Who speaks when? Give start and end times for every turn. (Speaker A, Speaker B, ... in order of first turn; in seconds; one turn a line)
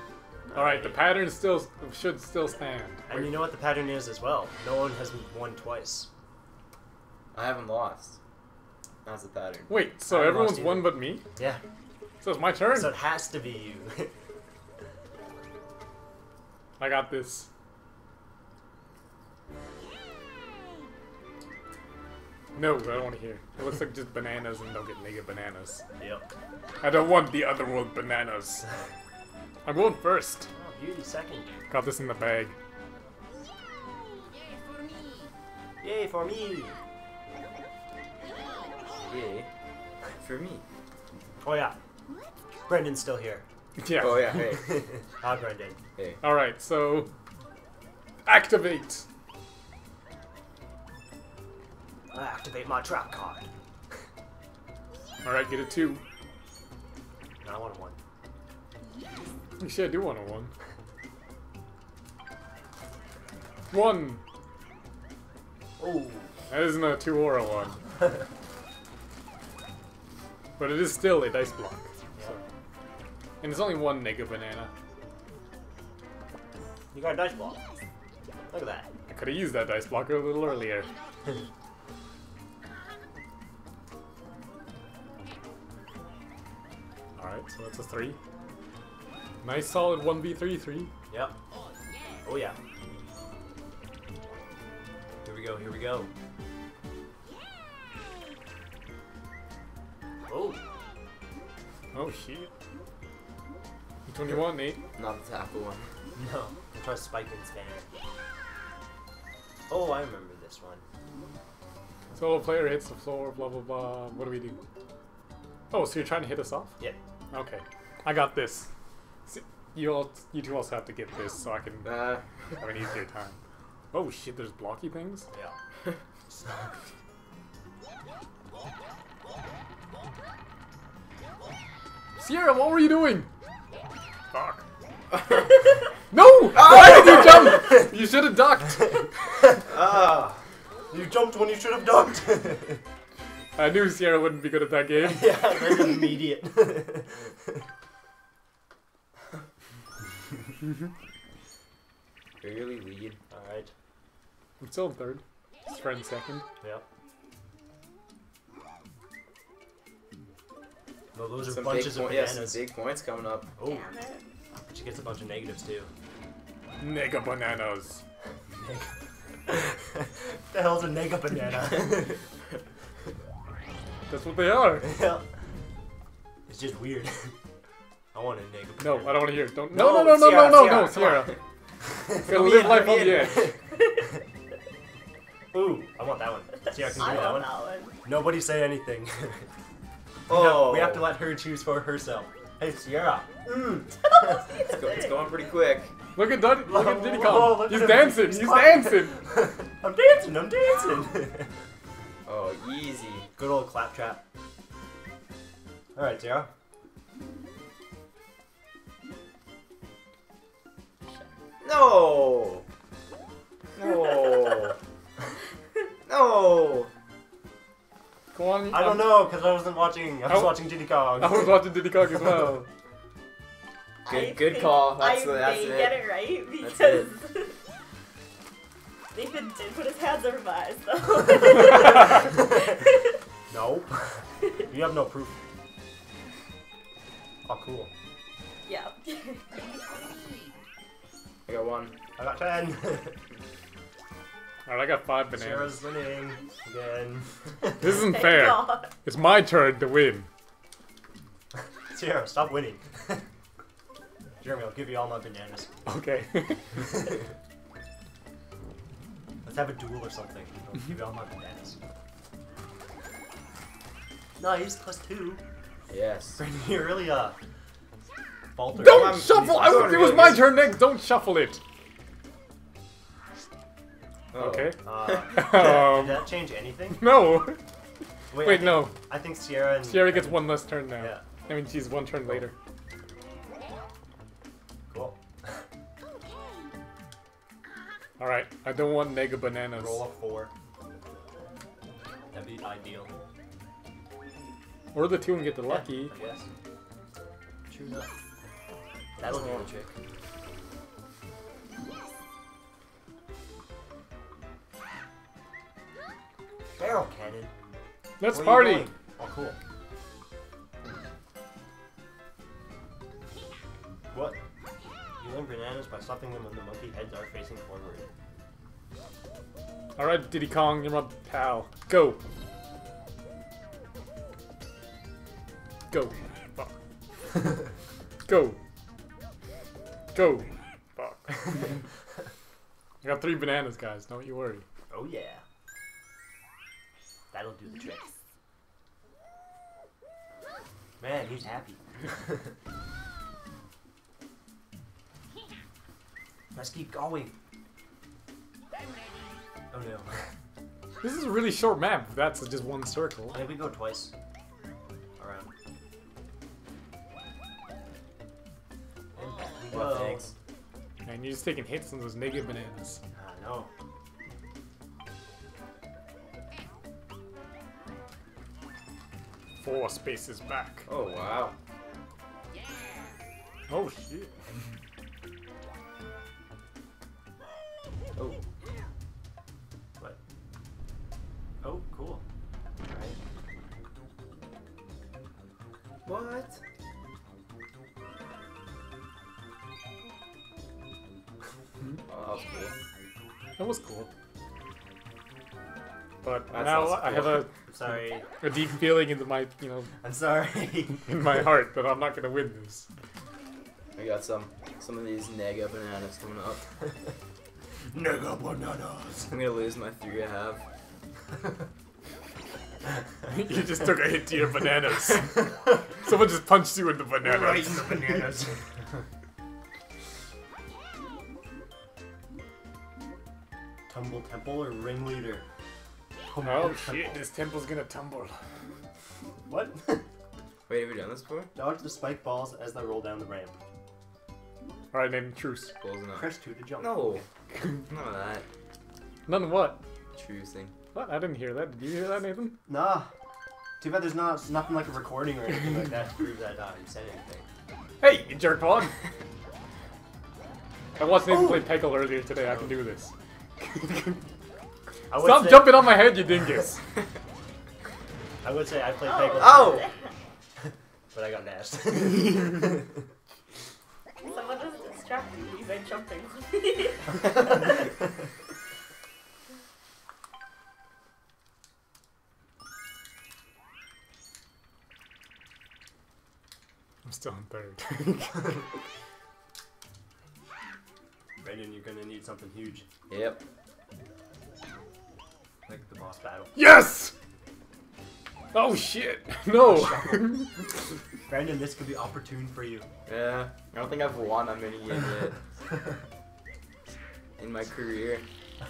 Speaker A: 0.5-1.0
Speaker B: 0.5-3.4
Speaker A: 3.1-6.1
Speaker C: 7.3-8.2
Speaker C: 9.0-9.7
Speaker B: 9.7-11.2
Speaker A: 10.1-11.6
Speaker B: 12.2-12.9
Speaker A: 12.7-14.1
Speaker B: 16.8-17.5
Speaker B: 22.5-25.8
Speaker A: 26.0-26.2
Speaker B: 26.8-28.6
Speaker B: 29.6-30.5
Speaker A: 30.5-31.5
Speaker B: 31.7-32.5
Speaker A: 35.8-36.7
Speaker C: 39.1-39.5
Speaker C: 40.1-40.6
Speaker A: 41.4-41.8
Speaker A: 42.7-43.4
Speaker B: 43.8-44.5
Speaker C: 44.0-44.8
Speaker A: 44.4-45.8
Speaker B: 46.2-47.1
Speaker B: 48.2-49.0
Speaker A: 52.1-53.5
Speaker B: 55.2-56.0
Speaker A: 57.4-58.0
Speaker B: 59.6-60.5
Speaker B: 63.7-64.2
Speaker A: 65.8-66.3
Speaker B: 66.5-67.8
Speaker B: 70.6-72.4
Speaker B: 73.4-74.7
Speaker A: 76.9-77.6
Speaker A: 78.5-78.9
Speaker B: 79.1-80.9
Speaker B: 87.2-88.2
Speaker B: 89.4-90.9
Speaker A: 91.1-91.3
Speaker A: 92.2-92.6
Speaker A: 95.2-96.1
Speaker A: 100.2-100.6
Speaker B: 101.9-102.5
Speaker B: 104.1-104.8
Speaker C: 104.9-105.9
Speaker A: 106.2-107.9
Speaker A: 109.7-110.8
Speaker B: 112.1-114.6
Speaker B: 115.7-116.8
Speaker B: 117.3-118.7
Speaker B: 119.2-122.1
Speaker C: 121.8-122.2
Speaker B: 122.6-123.3
Speaker B: 123.9-125.3
Speaker A: 125.3-125.5
Speaker B: 132.2-133.3
Speaker B: 134.3-134.6
Speaker B: 136.1-139.2
Speaker C: 136.5-137.6
Speaker A: 136.7-137.7
Speaker C: 139.7-140.4
Speaker A: 140.9-142.8
Speaker B: 143.6-145.3
Speaker A: 145.0-147.6
Speaker C: 152.4-153.2
Speaker A: 153.3-153.7
Speaker B: 154.6-156.4
Speaker A: 161.1-162.7
Speaker C: 161.4-163.5
Speaker A: 163.6-163.8
Speaker D: 163.6-164.2
Speaker A: 164.6-165.9
Speaker B: 166.8-168.0
Speaker A: 168.6-168.9
Speaker A: 169.5-172.2
Speaker B: 174.1-175.0
Speaker A: 174.8-175.2
Speaker A: 176.5-177.3
Speaker A: 178.1-183.6
Speaker B: 178.8-181.3
Speaker B: 182.2-183.5
Speaker C: 182.3-183.5
Speaker A: 185.5-187.5
Speaker D: 186.8-188.0
Speaker A: 188.0-189.5
Speaker C: 190.3-191.1
Speaker A: 190.3-194.4
Speaker D: 194.0-195.3
Speaker C: 194.6-195.9
Speaker B: 196.1-199.2
Speaker A: 196.6-201.5
Speaker C: 202.2-203.3
Speaker A: 203.4-204.2
Speaker A: 205.9-206.5
Speaker C: 211.6-212.6
Speaker C: 213.7-214.8
Speaker C: 216.1-216.9
Speaker B: 218.3-219.3
Speaker A: 218.7-221.6
Speaker B: 220.3-220.6
Speaker B: 221.2-222.7
Speaker D: 224.1-227.6
Speaker C: 224.1-226.1
Speaker C: 226.6-227.1
Speaker D: 229.1-232.9
Speaker A: 233.5-235.4
Speaker A: 237.4-237.9
Speaker D: 238.7-239.6
Speaker C: 241.4-241.9
Speaker A: 242.2-243.2
Speaker B: 244.7-245.8
Speaker A: 245.3-248.1
Speaker B: 247.8-250.3
Speaker D: 247.9-248.9
Speaker A: 251.9-253.2
Speaker A: 254.4-255.7
Speaker B: 255.8-256.9
Speaker A: 256.8-257.2
Speaker A: 259.4-261.8
Speaker A: 264.4-265.4
Speaker C: 265.9-266.4
Speaker A: 266.4-267.4
Speaker A: 268.5-270.4
Speaker B: 268.7-271.6
Speaker C: 268.8-270.5
Speaker C: 274.3-274.9
Speaker B: 274.4-276.3
Speaker A: 274.8-277.1
Speaker B: 276.9-277.6
Speaker A: 278.3-281.2
Speaker B: 278.3-278.9
Speaker B: 279.8-282.5
Speaker A: 284.9-285.6
Speaker B: 288.2-290.0
Speaker A: 289.8-290.5
Speaker A: 292.3-293.1
Speaker B: 294.9-296.1
Speaker A: 295.6-296.5
Speaker A: 297.7-298.1
Speaker A: 299.2-299.9
Speaker C: 299.3-299.7
Speaker A: 306.8-307.5
Speaker B: 308.2-308.9
Speaker A: 308.2-309.6
Speaker A: 314.1-314.4
Speaker A: 315.2-318.1
Speaker B: 320.0-322.2
Speaker B: 325.9-326.8
Speaker B: 328.3-328.6
Speaker B: 330.1-331.8
Speaker B: 333.0-334.6
Speaker A: 334.9-335.4
Speaker A: 337.3-338.1
Speaker A: 341.0-342.5
Speaker A: 346.5-347.3
Speaker A: 349.7-350.3
Speaker B: 351.0-353.5
Speaker A: 353.3-354.1
Speaker A: 355.2-355.5
Speaker A: 359.1-360.3
Speaker C: 359.7-360.3
Speaker B: 361.0-363.0
Speaker A: 363.1-363.7
Speaker B: 369.6-370.9
Speaker C: 370.9-371.6
Speaker B: 373.7-374.3
Speaker C: 378.1-378.4
Speaker A: 381.6-382.2
Speaker A: 382.8-383.2
Speaker C: 386.0-386.6
Speaker C: 392.1-392.8
Speaker B: 393.6-394.1
Speaker B: 396.2-399.9
Speaker C: 396.5-397.5
Speaker A: 397.6-398.2
Speaker A: 400.0-401.1
Speaker B: 401.0-402.9
Speaker C: 403.9-406.6
Speaker A: 407.9-409.4
Speaker C: 409.3-410.6
Speaker B: 413.3-418.2
Speaker A: 417.2-418.6
Speaker A: 423.9-425.4
Speaker A: 426.3-427.2
Speaker B: 426.4-428.4
Speaker A: 429.5-430.0
Speaker C: 430.7-431.5
Speaker A: 431.5-433.6
Speaker B: 434.9-435.7
Speaker C: 435.8-437.2
Speaker A: 436.1-437.2
Speaker C: 437.9-438.4
Speaker B: 439.3-439.8
Speaker C: 440.1-440.7
Speaker B: 440.9-442.6
Speaker A: 442.6-443.1
Speaker A: 443.8-447.5
Speaker B: 448.0-448.9
Speaker B: 450.9-454.2
Speaker A: 451.2-451.7
Speaker A: 452.4-452.8
Speaker A: 455.1-456.1
Speaker B: 455.1-456.8
Speaker A: 458.4-459.9
Speaker D: 459.0-460.1
Speaker C: 459.4-459.9
Speaker A: 461.1-463.0
Speaker D: 464.2-467.4
Speaker B: 477.0-478.6
Speaker A: 481.4-482.9
Speaker C: 483.1-483.4
Speaker A: 485.7-486.5
Speaker B: 486.5-487.1
Speaker B: 488.5-490.7
Speaker A: 489.6-490.3
Speaker A: 491.3-492.9
Speaker C: 493.1-495.4
Speaker C: 497.4-498.2